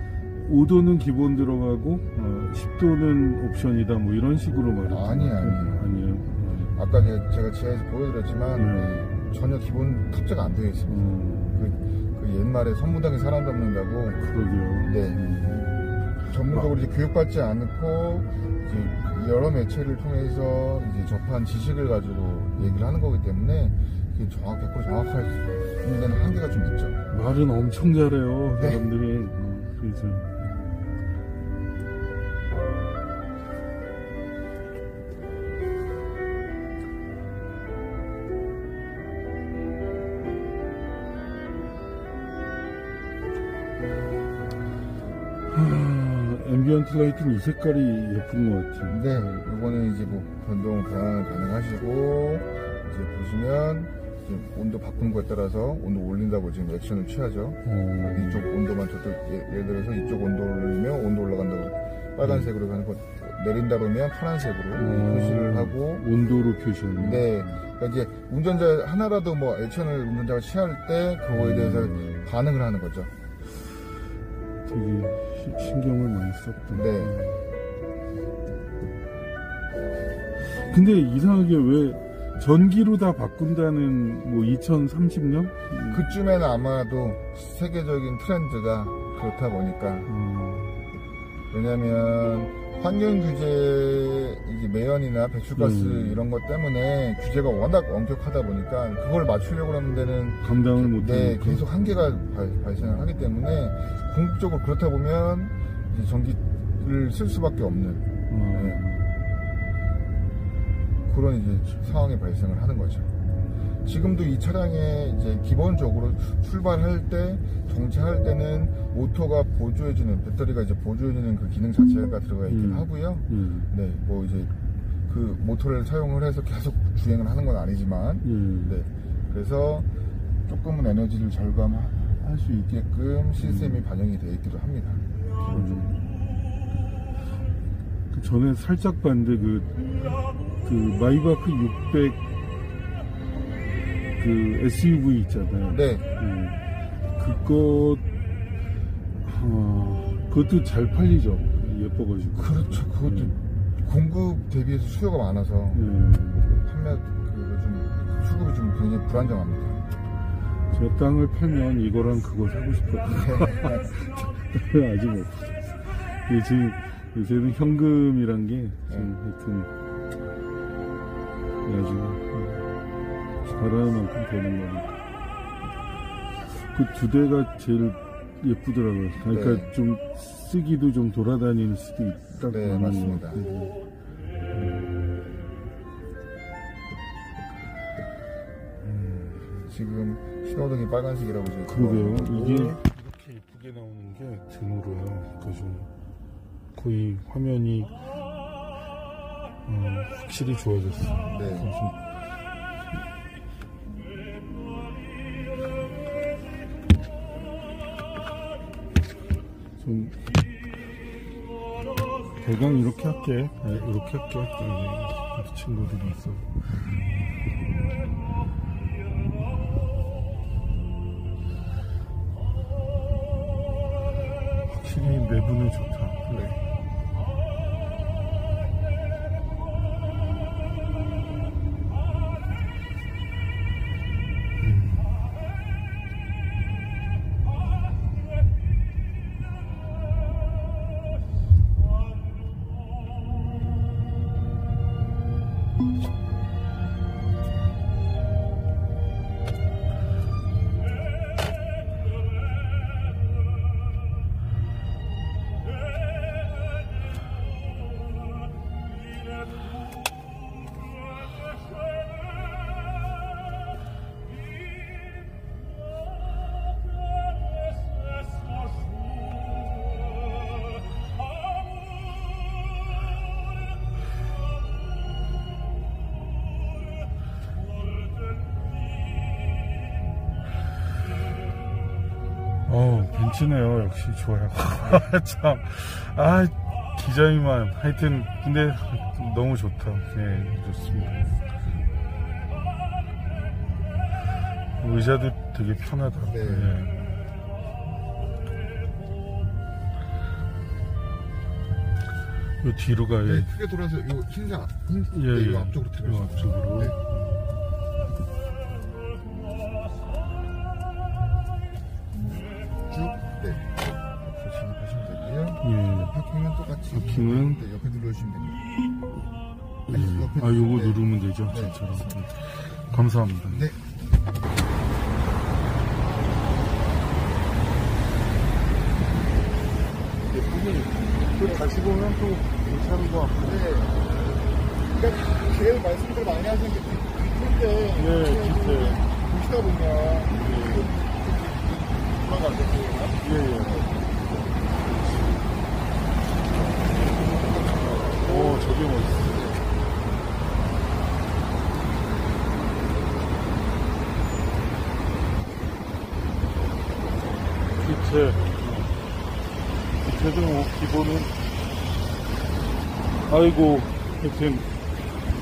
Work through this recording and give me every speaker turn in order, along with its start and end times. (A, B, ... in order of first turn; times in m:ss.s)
0:00.4-0:06.9 A
0:04.9-0:05.9 B
0:06.8-0:14.2 B
0:08.6-0:09.0 A
0:10.9-0:11.7 A
0:14.2-0:15.8 A
0:14.8-0:15.5 B
0:16.2-0:27.0 B
0:16.4-0:16.7 A
0:27.1-0:30.4 A
0:28.6-0:28.8 B
0:45.5-0:49.3 A
0:48.9-1:06.0 B
0:57.6-0:58.4 A
1:02.2-1:02.5 A
1:04.7-1:07.6 A
1:07.0-1:13.1 B
1:11.3-1:12.3 A
1:14.6-1:17.4 A
1:16.7-1:17.2 B
1:20.5-1:26.1 A
1:25.9-1:30.1 B
1:30.1-1:30.9 A
1:31.5-1:48.8 B
1:35.6-1:36.2 A
1:40.4-1:42.3 A
1:48.3-1:49.2 A
1:51.0-1:53.1 B
1:53.8-2:04.5 B
2:02.5-2:03.7 A
2:05.1-2:09.9 B
2:08.2-2:08.8 A
2:10.5-2:15.8 B
2:13.4-2:13.8 A
2:15.5-2:16.1 A
2:18.1-2:22.2 A
2:24.2-2:28.1 A
2:25.7-2:26.1 B
2:29.2-2:33.4 A
2:32.4-2:35.9 B
2:35.7-2:36.6 A
2:36.5-2:39.8 B
2:40.7-2:49.7 A
2:43.2-2:43.9 B
2:51.6-2:52.7 A
2:53.4-2:55.0 A
2:56.5-3:03.7 A
2:59.3-2:59.7 B
3:02.4-3:03.4 B
3:04.5-3:05.0 A
3:08.8-3:09.7 A
3:09.6-3:12.8 B
3:11.7-3:15.9 A
3:16.7-3:18.0 A
3:19.6-3:22.1 A
3:21.3-3:21.7 B
3:29.8-3:30.3 A
3:32.4-3:36.8 A
3:44.6-3:46.5 A
3:54.6-3:55.2 A
4:42.6-4:51.4 A
4:54.8-4:57.1 A
4:56.2-4:56.9 B
5:02.6-5:03.5 A
5:03.2-5:07.0 B
5:05.1-5:07.4 A
5:12.9-5:18.6 B
5:15.6-5:16.1 A
5:16.9-5:17.6 A
5:19.9-5:22.2 B
5:19.9-5:23.8 A
5:23.5-5:23.8 B
5:30.3-5:33.6 A
5:30.8-5:31.7 B
5:33.4-5:34.1 B
5:34.9-5:44.6 B
5:38.0-5:39.0 A
5:40.3-5:40.9 A
5:43.2-5:43.9 A
5:44.9-5:45.3 A
5:46.5-5:48.6 B
5:48.2-5:49.6 A
5:57.8-5:58.9 A
6:00.0-6:01.3 A
6:03.3-6:04.6 A